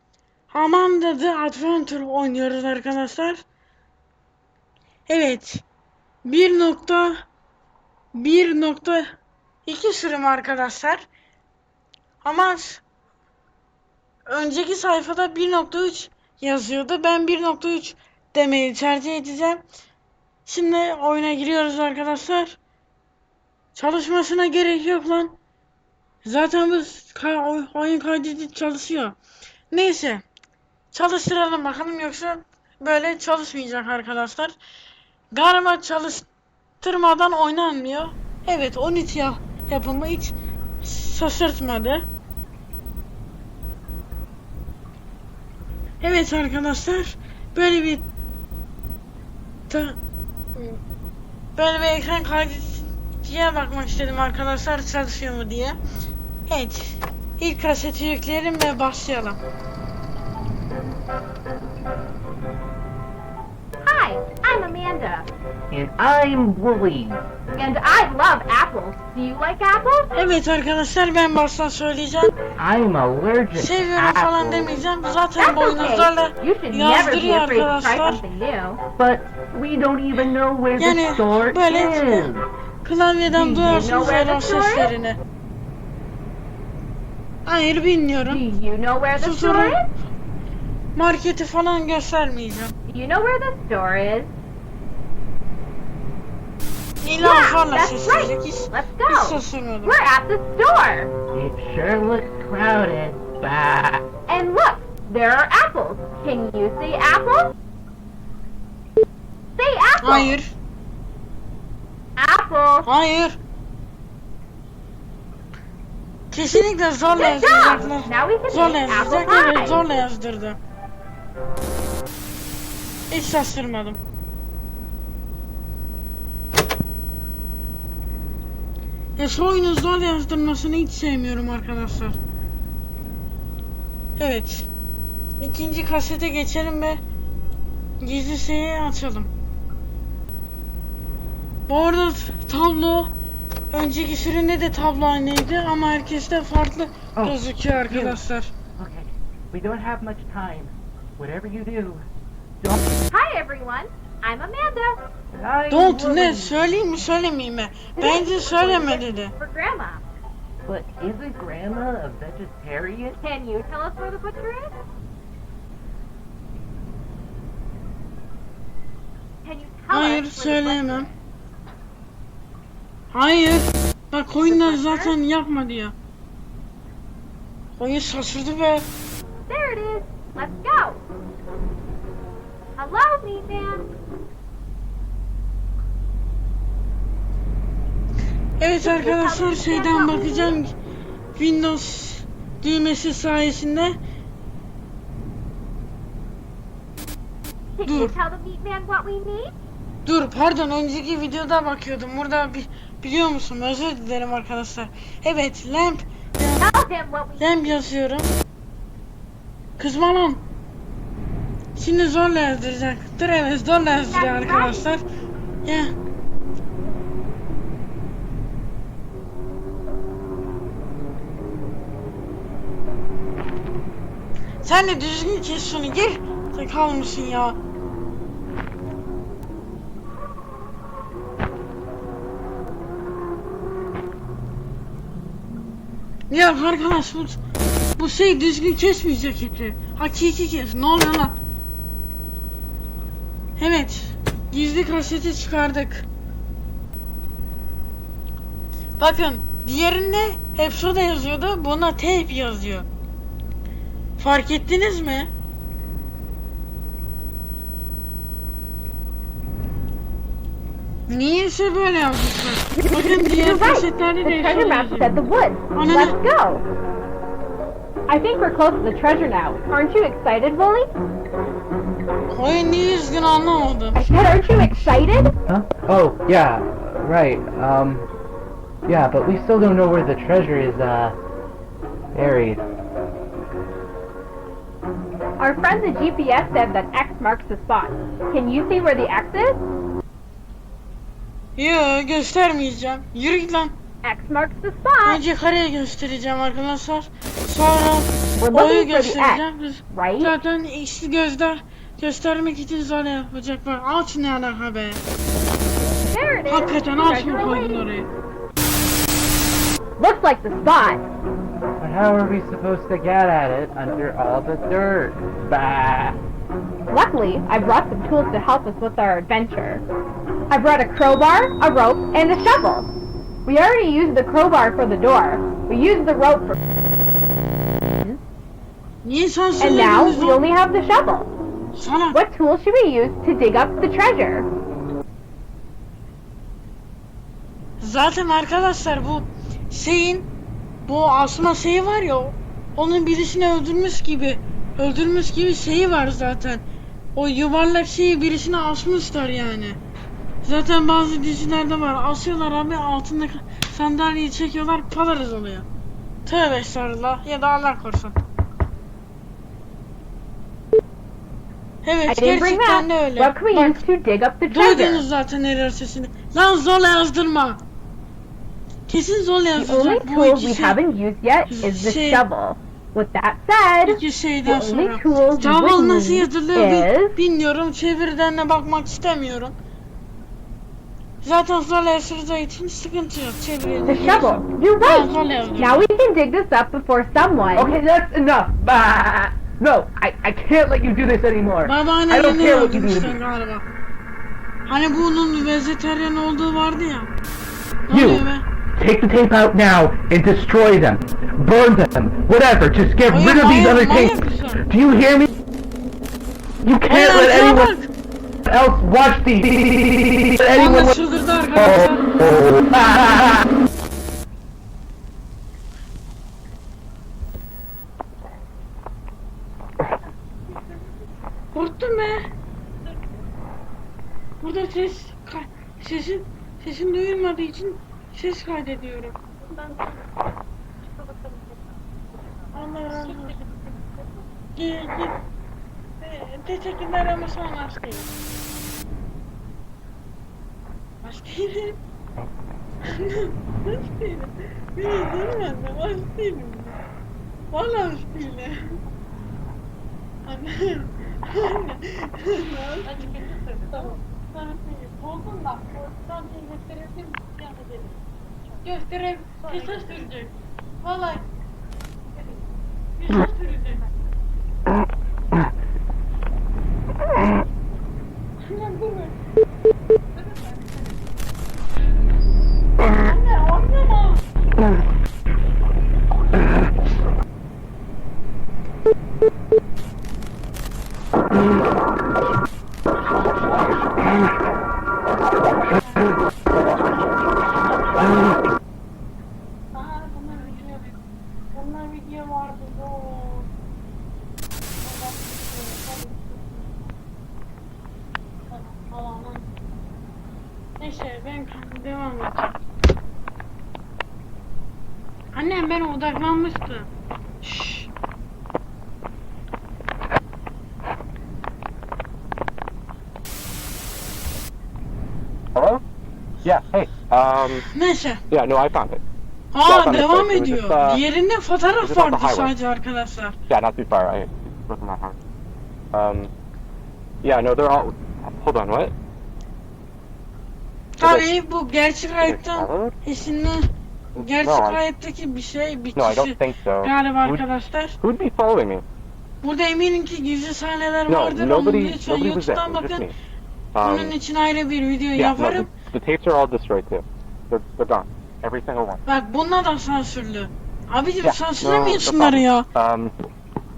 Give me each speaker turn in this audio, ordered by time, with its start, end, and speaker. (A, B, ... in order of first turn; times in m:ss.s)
0:00.5-0:03.4 A
0:05.1-0:05.6 A
0:06.2-0:07.2 A
0:08.1-0:09.1 A
0:09.6-0:11.0 A
0:12.2-0:12.8 A
0:14.3-0:19.6 A
0:20.4-0:22.6 A
0:23.7-0:25.3 A
0:26.2-0:29.2 A
0:29.7-0:30.2 A
0:30.9-0:34.5 A
0:35.3-0:36.2 A
0:36.8-0:42.0 A
0:46.0-0:48.0 A
0:49.7-0:50.0 A
0:50.5-0:50.8 A
0:51.6-0:55.8 A
0:56.5-0:59.4 A
1:03.8-1:05.3 B
1:05.7-1:07.2 C
1:07.5-1:10.1 B
1:10.1-1:12.3 A
1:12.6-1:14.7 C
1:13.5-1:18.2 A
1:15.4-1:18.8 B
1:19.0-1:22.4 C
1:20.8-1:22.3 A
1:22.8-1:25.2 A
1:23.3-1:23.8 C
1:23.6-1:24.9 B
1:27.4-1:28.4 A
1:28.2-1:29.9 B
1:29.2-1:29.8 A
1:31.0-1:32.7 A
1:32.8-1:34.3 B
1:37.0-1:40.0 A
1:37.2-1:41.1 B
1:41.3-1:44.0 C
1:44.3-1:47.5 B
1:49.6-1:50.4 B
1:50.0-1:50.5 A
1:52.2-1:52.9 B
1:52.8-1:53.4 A
1:56.3-2:00.6 A
1:57.1-1:59.8 B
2:03.1-2:04.0 A
2:09.2-2:12.2 A
2:14.2-2:14.7 A
2:15.4-2:17.0 A
2:18.0-2:19.3 A
2:21.7-2:23.1 A
2:23.7-2:28.5 A
2:27.2-2:28.2 C
2:28.8-2:32.0 C
2:32.6-2:33.0 C
2:33.1-2:35.0 B
2:35.3-2:36.6 C
2:35.7-2:39.3 A
2:38.0-2:40.0 B
2:40.6-2:43.2 C
2:43.2-2:44.7 B
2:49.4-2:51.1 B
2:49.9-2:51.1 A
2:53.1-2:55.9 A
2:54.4-2:55.2 B
2:57.8-2:58.9 A
2:59.5-3:01.0 B
3:02.8-3:03.9 B
3:08.6-3:10.7 A
3:08.8-3:10.6 B
3:11.4-3:14.0 A
3:17.8-3:19.5 B
3:17.8-3:18.1 A
3:20.0-3:26.7 A
3:26.6-3:27.8 B
3:27.4-3:28.3 A
3:29.8-3:30.4 A
3:31.8-3:35.0 A
3:34.0-3:34.9 B
3:35.6-3:35.9 A
3:44.6-3:47.6 A
3:56.3-3:57.4 A
3:58.0-4:01.4 A
4:03.6-4:06.0 A
4:09.0-4:12.8 A
4:14.2-4:15.3 A
4:21.1-4:25.2 A
4:23.2-4:26.6 B
4:25.7-4:26.2 A
4:28.1-4:30.9 B
4:32.3-4:34.0 A
4:33.9-4:35.3 B
4:35.5-4:38.1 C
4:38.8-4:41.2 C
4:42.1-4:42.6 C
4:45.4-4:49.6 B
4:51.6-4:53.7 A
4:54.0-4:55.2 B
4:55.0-5:05.0 A
4:58.4-5:00.3 B
5:06.1-5:07.8 B
5:06.5-5:08.1 A
5:10.0-5:11.0 B
5:11.8-5:16.2 C
5:16.9-5:19.8 B
5:20.5-5:22.9 B
5:23.4-5:26.6 B
5:29.0-5:30.5 A
5:29.6-5:31.3 B
5:31.7-5:32.2 A
5:32.1-5:34.5 B
5:37.8-5:40.3 A
5:40.8-5:46.6 A
5:47.2-5:49.8 A
5:50.4-5:55.6 A
5:56.2-5:58.2 A
6:01.8-6:03.8 A
6:02.1-6:05.0 B
6:04.5-6:07.6 A
6:08.9-6:10.8 A
6:09.6-6:17.2 B
6:11.5-6:12.2 A
6:13.8-6:19.5 A
6:21.2-6:25.8 A
6:23.8-6:27.7 B
6:27.5-6:33.2 C
6:31.6-6:33.6 A
6:34.7-6:37.1 A
6:37.9-6:38.4 A
6:37.9-6:45.4 C
6:43.1-6:44.6 A
6:46.6-6:47.7 C
6:46.9-6:47.9 A
6:48.4-6:51.0 C
6:50.5-6:52.1 A
6:51.5-6:53.4 C
7:01.5-7:02.2 A
7:04.4-7:09.2 A
7:12.5-7:13.4 A
7:14.5-7:15.2 A
7:16.0-7:18.1 A
7:21.0-7:21.8 A
7:22.9-7:26.8 A
7:27.5-7:28.8 A
7:30.2-7:37.9 A
7:38.6-7:41.3 A
7:43.0-7:43.8 A
7:48.4-7:49.1 A
7:52.8-7:54.2 A
8:05.7-8:06.1 A
8:09.7-8:10.8 A
8:11.5-8:13.5 A
8:14.8-8:16.9 A
8:18.5-8:19.4 A
8:20.8-8:22.6 A
8:25.3-8:26.9 A
8:27.4-8:27.9 A
8:35.5-8:35.8 D
8:36.4-8:37.6 D
8:37.7-8:38.2 A
8:38.3-8:39.0 D
8:39.5-8:43.3 A
8:39.6-8:41.0 D
8:41.8-8:42.5 D
8:43.5-8:45.2 D
8:45.9-8:46.3 D
8:47.2-8:48.9 D
8:51.0-8:58.0 A
8:51.0-8:51.3 D
8:52.2-8:53.0 D
8:54.2-8:54.8 D
8:55.9-8:57.4 D
8:58.0-8:58.8 D
8:59.4-9:03.1 A
9:01.1-9:03.1 D
9:03.8-9:04.1 D
9:03.8-9:05.7 A
9:05.2-9:09.0 D
9:09.1-9:12.7 A
9:11.2-9:13.1 D